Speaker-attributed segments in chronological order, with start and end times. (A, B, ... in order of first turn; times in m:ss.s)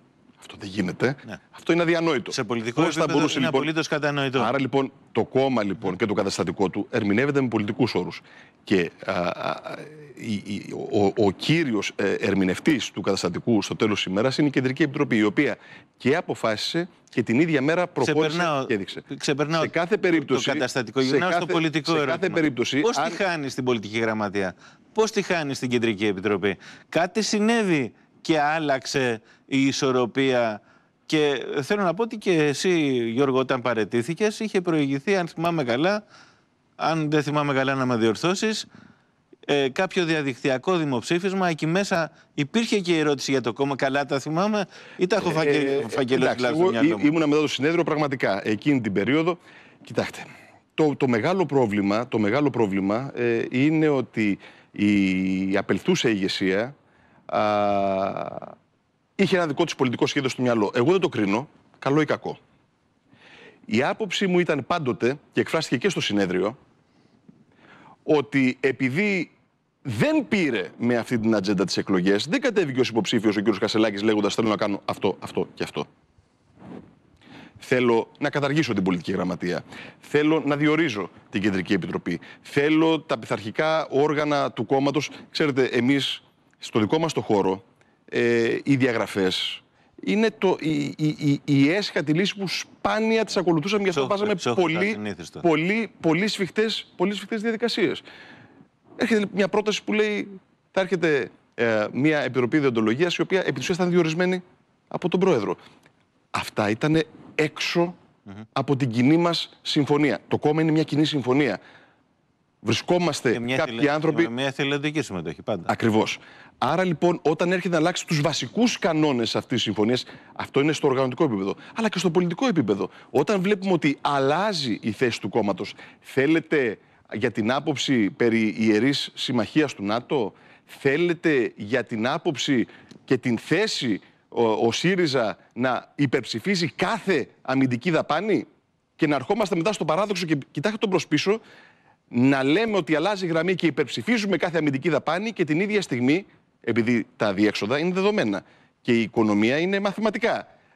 0:00.4-0:03.7 A
0:02.3-0:04.5 B
0:04.4-0:19.0 A
0:18.0-0:36.0 B
0:19.6-0:23.2 A
0:36.8-0:38.7 B
0:39.5-0:47.1 B
0:45.2-0:56.7 A
0:57.3-0:58.5 A
0:59.2-1:02.4 A
1:03.7-1:06.6 A
1:08.0-1:09.3 A
1:09.8-1:15.9 A
1:17.6-1:38.0 A
1:33.9-1:35.4 B
1:39.0-1:45.6 A
1:46.3-1:48.0 A
1:48.5-1:51.6 A
1:52.6-1:54.3 A
1:53.3-1:55.7 B
1:55.7-2:18.4 A
2:19.0-2:21.4 A
2:22.1-2:30.5 A